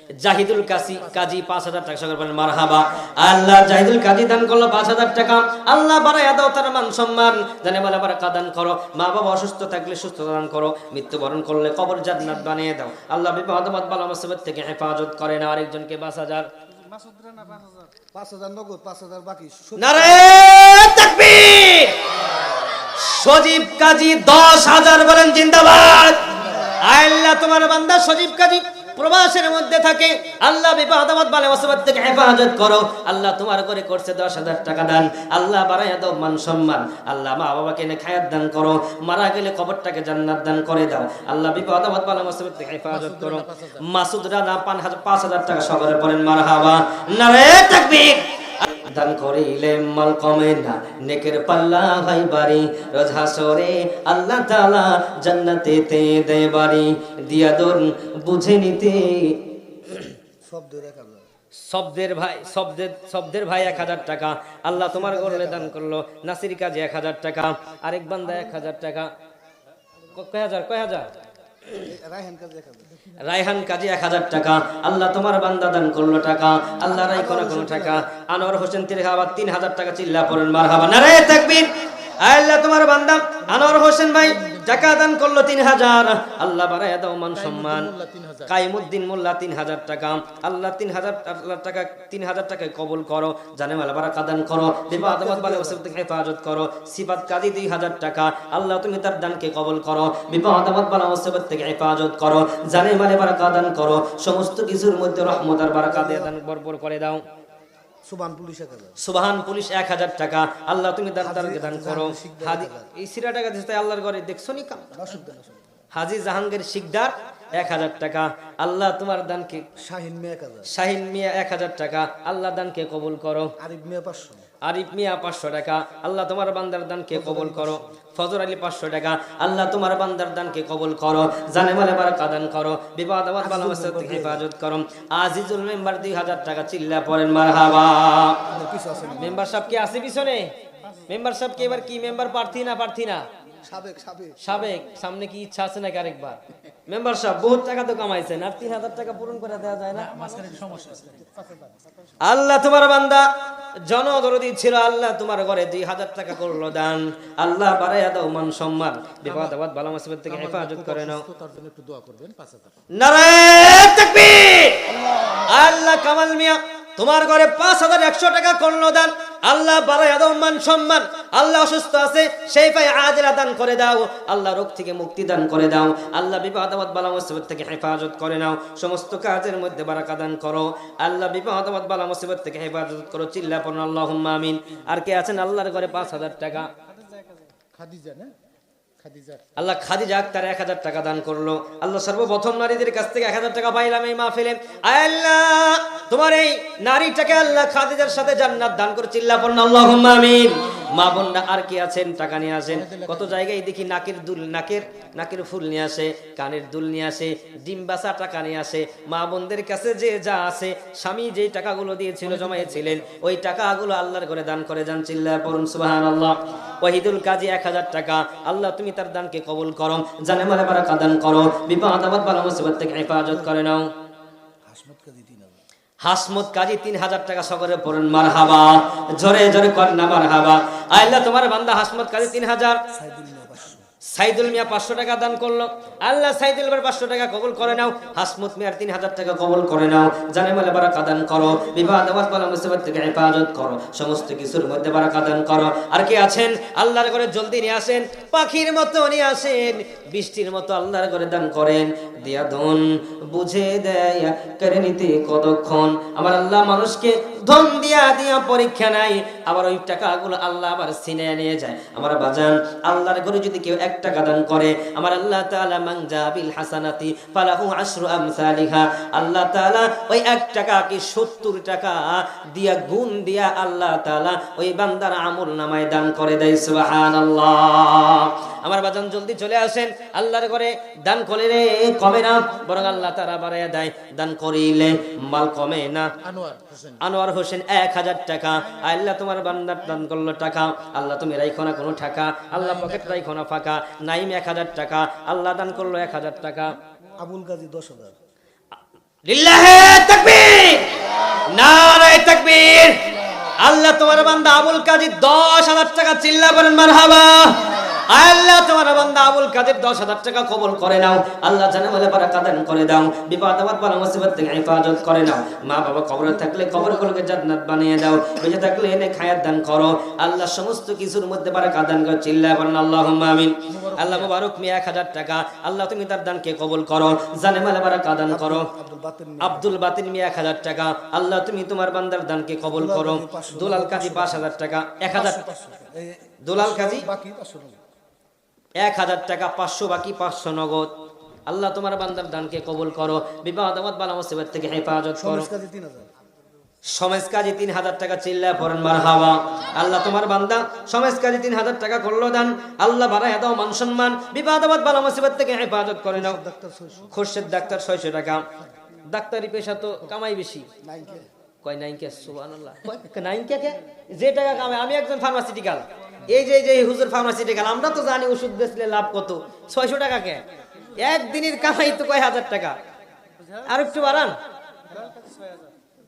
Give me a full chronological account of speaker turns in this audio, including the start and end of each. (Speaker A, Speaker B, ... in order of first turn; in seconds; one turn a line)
Speaker A: 0.2-16.5
Speaker B: 18.1-20.4
Speaker A: 19.8-22.1
Speaker B: 22.3-22.8
Speaker A: 22.9-60.1
Speaker B: 26.3-26.6
Speaker C: 42.9-43.8
Speaker B: 60.4-61.2
Speaker A: 61.7-69.1
Speaker B: 64.8-65.8
Speaker A: 70.1-71.1
Speaker B: 71.7-73.0
Speaker A: 73.1-87.9
Speaker B: 76.9-78.0
Speaker C: 83.5-85.0
Speaker C: 87.4-88.5
Speaker A: 88.5-107.2
Speaker C: 95.0-95.8
Speaker B: 105.8-106.3
Speaker B: 108.0-109.0
Speaker A: 109.0-115.0
Speaker B: 111.2-112.9
Speaker B: 114.9-115.7
Speaker A: 115.9-119.7
Speaker B: 119.8-120.7
Speaker A: 120.7-123.5
Speaker B: 123.6-124.4
Speaker A: 124.6-138.4
Speaker B: 127.1-127.8
Speaker B: 133.4-134.4
Speaker B: 138.5-139.4
Speaker A: 139.2-140.5
Speaker A: 141.1-143.2
Speaker B: 143.6-144.5
Speaker A: 144.4-150.3
Speaker C: 149.9-151.7
Speaker A: 152.2-153.2
Speaker A: 153.8-161.2
Speaker C: 159.2-159.6
Speaker C: 160.3-162.8
Speaker A: 162.9-186.7
Speaker C: 187.0-188.3
Speaker C: 189.0-189.5
Speaker A: 189.6-223.9
Speaker C: 202.7-203.4
Speaker C: 212.2-213.1
Speaker B: 224.7-225.6
Speaker A: 226.0-232.8
Speaker B: 232.9-233.9
Speaker A: 234.1-286.1
Speaker C: 286.2-287.0
Speaker A: 287.0-296.8
Speaker C: 292.5-293.2
Speaker B: 297.2-298.1
Speaker A: 299.2-303.1
Speaker A: 303.6-328.7
Speaker B: 316.4-317.1
Speaker C: 323.7-324.3
Speaker B: 328.3-329.8
Speaker A: 329.4-335.4
Speaker B: 332.7-334.5
Speaker B: 335.1-337.8
Speaker A: 336.4-337.1
Speaker A: 338.8-340.9
Speaker A: 341.5-345.5
Speaker B: 345.2-346.1
Speaker A: 346.9-356.4
Speaker B: 356.1-357.4
Speaker A: 357.1-358.5
Speaker A: 359.1-360.7
Speaker B: 360.8-361.3
Speaker A: 361.6-370.4
Speaker A: 371.0-372.8
Speaker A: 373.6-374.4